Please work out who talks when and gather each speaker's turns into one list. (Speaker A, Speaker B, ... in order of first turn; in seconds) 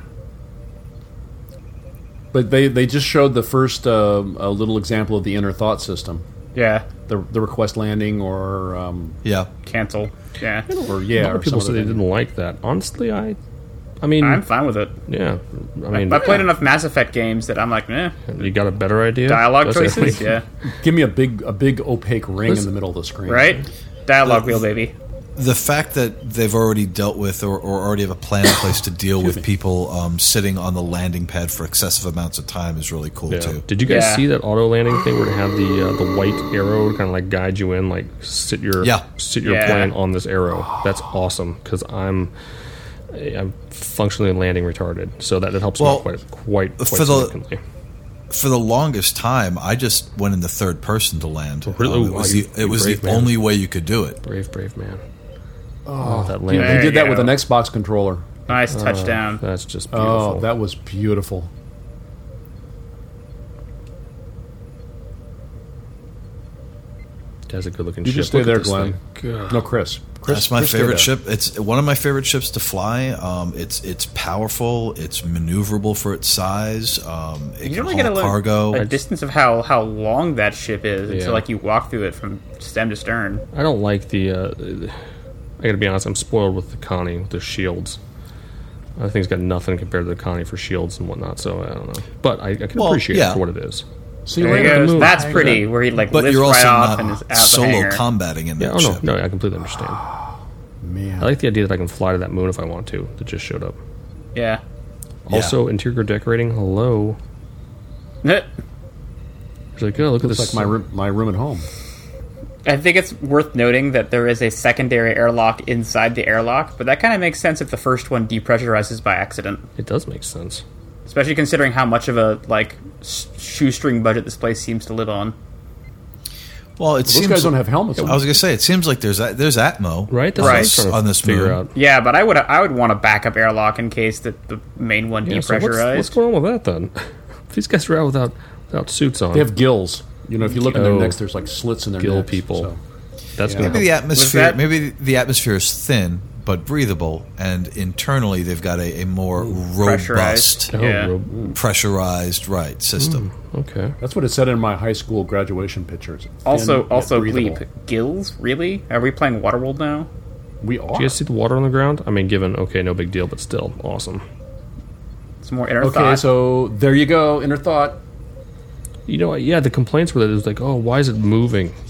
Speaker A: 2.3-6.2, 7.1-9.2, 10.8-12.0, 20.6-23.6, 55.8-58.3, 59.9-61.5, 68.0-69.0, 69.5-71.1, 94.2-95.6, 99.8-101.3, 110.0-111.7, 127.0-128.2, 139.3-142.8, 143.4-143.8, 151.3-151.6, 154.0-157.6, 160.6-161.2, 165.8-168.0
Speaker B: 6.5-6.9, 9.6-10.7, 14.2-14.9, 15.9-18.3, 19.2-20.4, 23.2-24.9, 33.8-34.2, 39.4-39.9, 56.5-57.4, 58.5-59.4, 77.6-83.4, 94.4-98.0, 104.3-104.6, 108.2-108.5, 112.6-119.6, 121.0-125.3, 130.4-130.7, 131.7-136.1, 144.1-144.6, 149.8-151.1, 156.4-160.1, 165.4-166.2
Speaker C: 9.2-9.5, 25.4-33.6, 45.8-46.0, 46.8-47.3, 48.3-54.2, 70.3-78.8, 92.7-93.4, 96.1-99.0, 105.3-105.5, 126.8-131.6, 143.6-150.7, 151.5-153.3
Speaker D: 10.7-13.4, 14.0-14.4, 15.1-16.5, 18.3-20.4, 33.3-42.3, 43.1-47.6, 51.6-53.4, 54.2-55.0, 56.0-57.2, 58.7-60.5, 67.5-69.6, 78.7-79.0, 81.1-81.4, 83.5-85.0, 85.6-88.0, 89.0-93.8, 94.4-95.6, 98.6-100.0, 101.2-103.8, 105.2-107.2, 109.8-110.7, 119.8-120.6, 130.1-131.7, 135.2-137.0, 137.5-139.5, 140.7-141.2, 142.0-142.7, 143.4-143.9, 150.7-151.5, 153.0-153.9, 160.9-164.2, 169.1-171.7